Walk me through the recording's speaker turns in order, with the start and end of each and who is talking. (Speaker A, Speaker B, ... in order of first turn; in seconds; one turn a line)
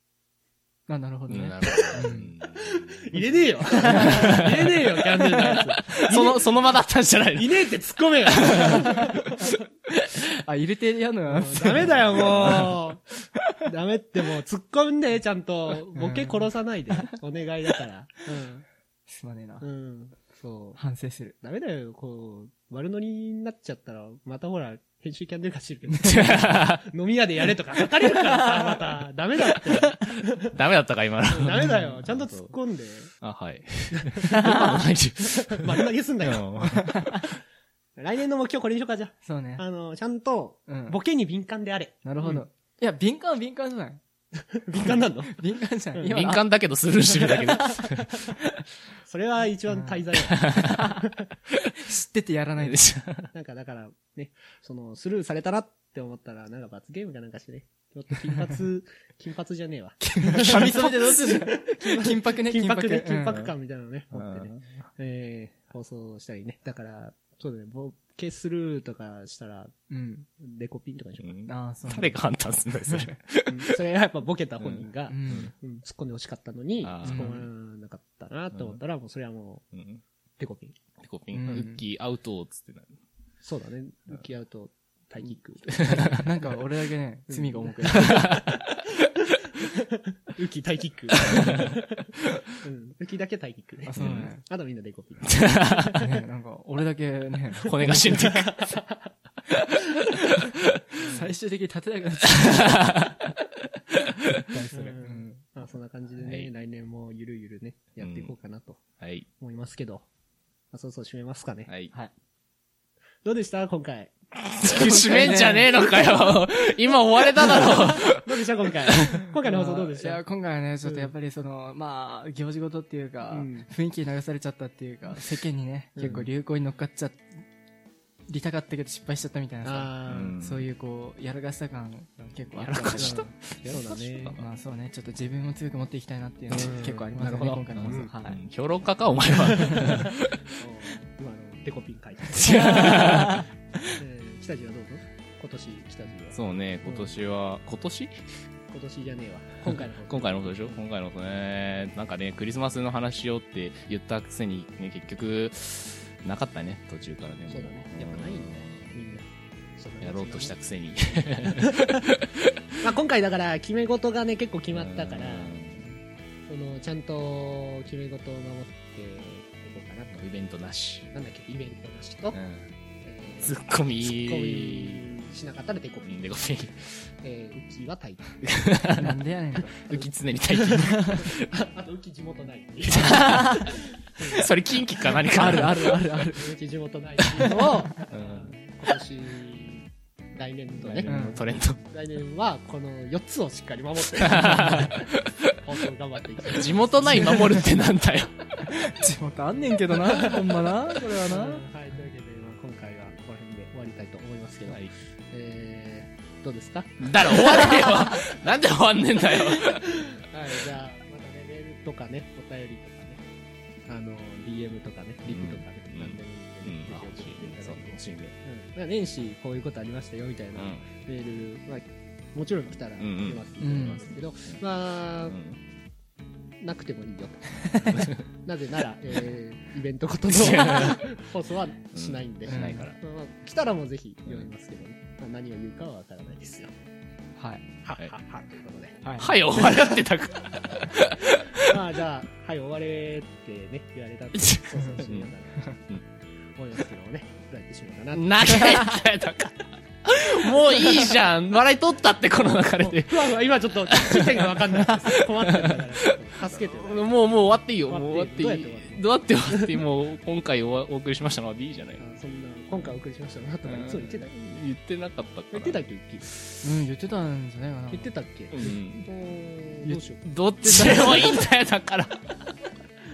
Speaker A: 0.9-2.3
Speaker B: 1.3-3.3
Speaker C: 1.7-6.7
Speaker B: 3.8-5.0
Speaker A: 3.8-4.5
Speaker A: 5.5-6.2
Speaker B: 5.5-7.7
Speaker C: 7.3-9.5
Speaker B: 8.2-10.1
Speaker A: 8.7-9.1
Speaker A: 10.1-12.8
Speaker C: 11.3-13.0
Speaker B: 11.8-12.8
Speaker C: 13.6-18.6
Speaker A: 15.9-16.5
Speaker A: 19.1-19.7
Speaker C: 19.6-20.8
Speaker A: 20.8-21.4
Speaker C: 21.4-30.5
Speaker B: 26.0-26.9
Speaker B: 29.7-32.5
Speaker C: 31.2-33.1
Speaker B: 33.2-37.4
Speaker C: 33.9-36.8
Speaker A: 34.3-34.8
Speaker A: 36.8-37.2
Speaker C: 38.0-42.4
Speaker A: 39.2-39.6
Speaker A: 40.7-41.0
Speaker A: 42.0-44.0
Speaker C: 44.4-45.4
Speaker A: 44.8-46.4
Speaker B: 46.1-48.2
Speaker C: 47.1-48.3
Speaker C: 49.0-51.2
Speaker A: 49.7-50.0
Speaker B: 50.2-50.9
Speaker A: 50.7-51.0
Speaker A: 51.8-52.9
Speaker B: 52.6-53.3
Speaker C: 53.3-69.7
Speaker A: 60.0-63.5
Speaker B: 64.1-64.9
Speaker A: 69.9-70.3
Speaker C: 70.4-71.3
Speaker B: 71.2-73.8
Speaker A: 71.5-72.2
Speaker A: 72.9-73.1
Speaker C: 73.5-79.6
Speaker B: 74.6-75.5
Speaker A: 75.1-75.5
Speaker B: 76.8-77.5
Speaker A: 77.0-77.4
Speaker B: 79.7-80.0
Speaker C: 80.4-80.8
Speaker B: 81.0-83.0
Speaker A: 81.3-81.8
Speaker C: 83.4-86.5
Speaker B: 85.7-86.2
Speaker A: 85.8-88.4
Speaker C: 87.3-88.6
Speaker B: 88.0-88.7
Speaker C: 89.5-96.1
Speaker B: 91.2-91.7
Speaker A: 93.8-94.4
Speaker B: 94.0-94.3
Speaker B: 95.2-96.0
Speaker A: 95.9-98.0
Speaker B: 97.6-98.8
Speaker C: 97.8-99.1
Speaker B: 99.6-99.9
Speaker A: 100.9-102.9
Speaker C: 101.0-101.3
Speaker B: 102.3-103.3
Speaker A: 104.4-105.4
Speaker C: 104.7-108.8
Speaker B: 106.2-106.5
Speaker B: 108.0-108.3
Speaker B: 109.0-109.3
Speaker C: 109.4-110.0
Speaker C: 110.7-111.7
Speaker B: 111.7-111.9
Speaker C: 113.2-116.1
Speaker B: 114.5-119.2
Speaker A: 114.7-116.0
Speaker C: 117.5-120.2
Speaker A: 119.4-127.4
Speaker C: 120.8-121.1
Speaker C: 123.3-123.7
Speaker C: 126.0-126.3
Speaker A: 128.3-133.3
Speaker C: 129.6-130.3
Speaker B: 130.1-130.7
Speaker B: 132.6-134.4
Speaker C: 133.0-134.4
Speaker A: 134.3-138.4
Speaker C: 136.5-138.1
Speaker B: 137.8-140.6
Speaker C: 139.3-143.2
Speaker A: 139.6-140.1
Speaker B: 142.3-143.5
Speaker A: 142.6-143.5
Speaker C: 144.0-147.1
Speaker B: 146.3-148.2
Speaker C: 148.7-150.8
Speaker B: 149.7-159.0
Speaker C: 157.5-160.5
Speaker B: 160.0-162.7
Speaker C: 161.5-162.1
Speaker C: 162.8-165.5
Speaker B: 164.7-166.0
Speaker C: 166.5-170.2
Speaker B: 170.1-171.1
Speaker C: 171.1-172.4
Speaker B: 172.3-172.7
Speaker C: 173.0-176.2
Speaker B: 173.4-175.0
Speaker B: 176.0-176.9
Speaker C: 177.2-178.5
Speaker B: 178.4-181.5
Speaker A: 179.0-179.7
Speaker C: 180.6-184.5
Speaker A: 180.9-181.2
Speaker B: 182.9-183.6
Speaker A: 183.0-183.7
Speaker B: 184.2-186.1
Speaker C: 185.1-185.7
Speaker A: 185.3-186.5
Speaker C: 186.3-197.6
Speaker B: 187.3-188.6
Speaker A: 187.4-187.9
Speaker B: 190.8-191.8
Speaker A: 191.0-191.4
Speaker B: 194.2-195.6
Speaker A: 194.4-194.8
Speaker B: 196.5-198.8
Speaker A: 197.1-197.7
Speaker A: 198.7-201.6
Speaker C: 201.2-208.3
Speaker B: 204.7-204.9
Speaker B: 207.0-210.0
Speaker C: 209.2-213.2
Speaker C: 213.9-225.4
Speaker B: 215.2-218.3
Speaker B: 220.5-220.8
Speaker B: 223.0-224.6
Speaker A: 223.6-224.1
Speaker B: 225.2-225.6
Speaker C: 226.6-236.7
Speaker B: 227.8-228.2
Speaker B: 230.3-231.1
Speaker B: 231.9-233.0
Speaker A: 232.5-232.9
Speaker A: 237.4-237.7
Speaker C: 237.8-239.1
Speaker A: 239.0-239.5
Speaker B: 239.2-241.8
Speaker C: 241.6-245.7
Speaker B: 244.4-245.3
Speaker C: 246.6-248.9
Speaker B: 248.1-262.0
Speaker C: 250.7-251.0
Speaker C: 252.8-257.1
Speaker C: 257.9-259.8
Speaker C: 262.0-264.3
Speaker B: 263.6-265.9
Speaker C: 265.5-266.2
Speaker A: 266.6-268.1
Speaker C: 267.9-270.2
Speaker B: 268.5-269.1
Speaker B: 270.2-272.3
Speaker A: 270.6-271.4
Speaker C: 270.7-271.4